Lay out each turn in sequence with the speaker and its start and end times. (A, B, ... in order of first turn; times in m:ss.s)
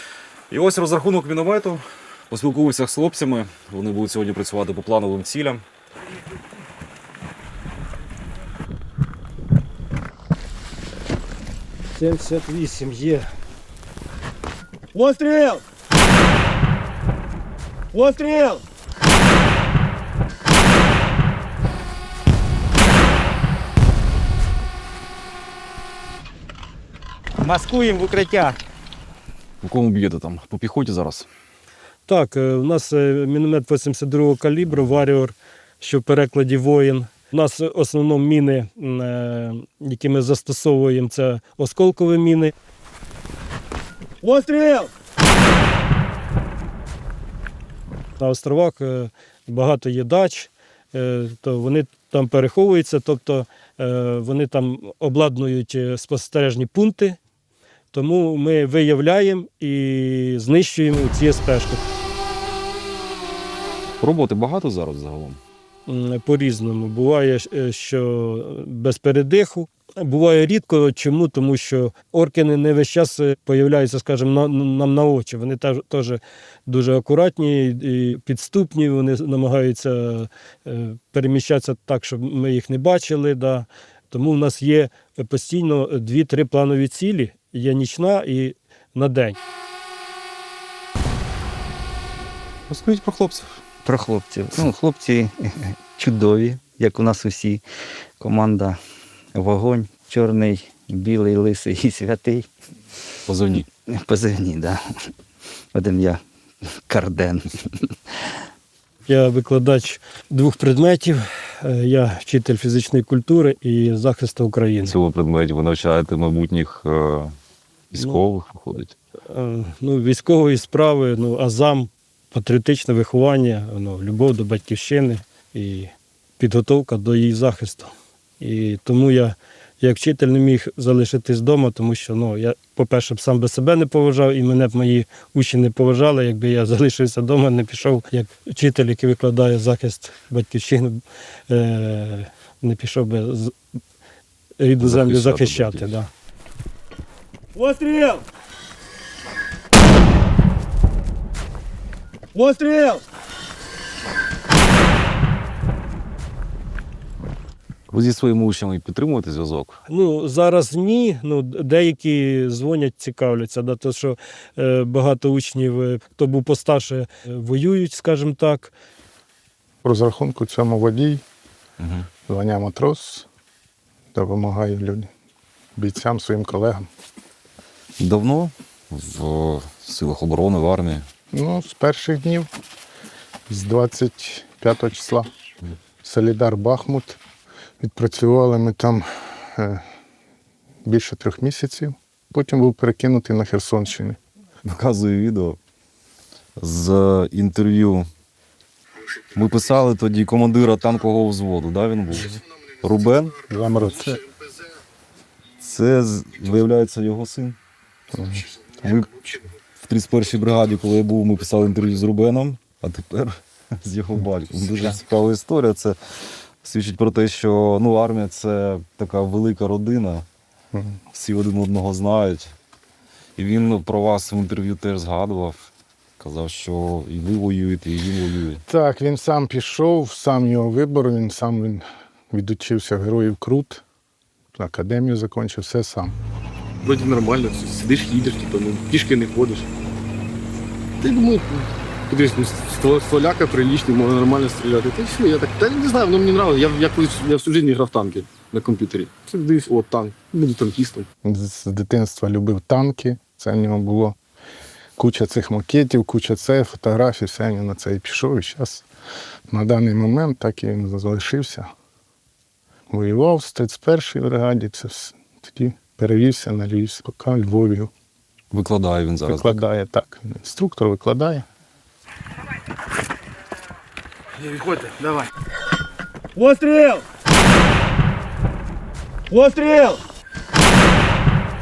0:00.5-0:05.6 A
0:11.9-0:13.3 B
0:14.9-0:15.6 B
0:17.9-0:18.6 B
0:27.4-0:28.6 C
0:29.6-0:31.3 A
0:32.1-0:42.5 B
0:44.2-0:44.9 B
0:48.2-0:57.2 B
0:57.9-1:01.8 B
1:04.0-1:05.4 A
1:05.9-1:29.4 B
1:32.7-1:33.5 A
1:33.8-1:37.6 C
1:38.2-1:38.8 C
1:39.3-1:42.5 C
1:43.2-1:43.7 A
1:43.9-1:44.8 C
1:45.7-1:46.2 C
1:46.8-1:47.9 C
1:49.1-1:54.9 B
1:54.8-1:57.3 A
1:57.9-1:58.9 A
1:59.3-2:23.5 B
2:24.6-2:26.1 B
2:24.8-2:26.0 A
2:27.5-2:28.2 B
2:32.3-2:33.0 B
2:37.9-2:39.8 A
2:39.9-2:48.7 B
2:49.8-2:51.2 D
2:51.8-2:52.1 A
2:52.3-2:53.3 D
2:54.1-2:55.1 D
2:55.8-2:56.9 D
2:58.0-3:01.0 A
3:01.3-3:02.5 D
3:03.5-3:05.3 D
3:06.0-3:07.2 D
3:07.8-3:09.8 D
3:10.8-3:14.2 D
3:14.6-3:15.6 A
3:16.6-3:18.1 A
3:19.3-3:23.4 A
3:23.5-3:24.2 D
3:25.6-3:27.6 A
3:28.1-3:28.5 D
3:28.8-3:29.2 A
3:29.8-3:36.0 A
3:36.6-3:40.2 A
3:40.7-3:41.0 D
3:41.1-3:42.5 A
3:43.4-3:45.6 A
3:46.2-3:48.6 A
3:48.6-3:53.8 D
3:54.5-3:56.2 D
3:56.8-3:59.7 E
4:01.0-4:11.0 E
4:11.2-4:14.2 D
4:15.0-4:18.8 D
4:19.5-4:21.7 D
4:22.9-4:27.9 D
4:28.5-4:29.6 A
4:29.3-4:31.4 D
4:36.4-4:37.0 B
4:39.4-4:40.0 B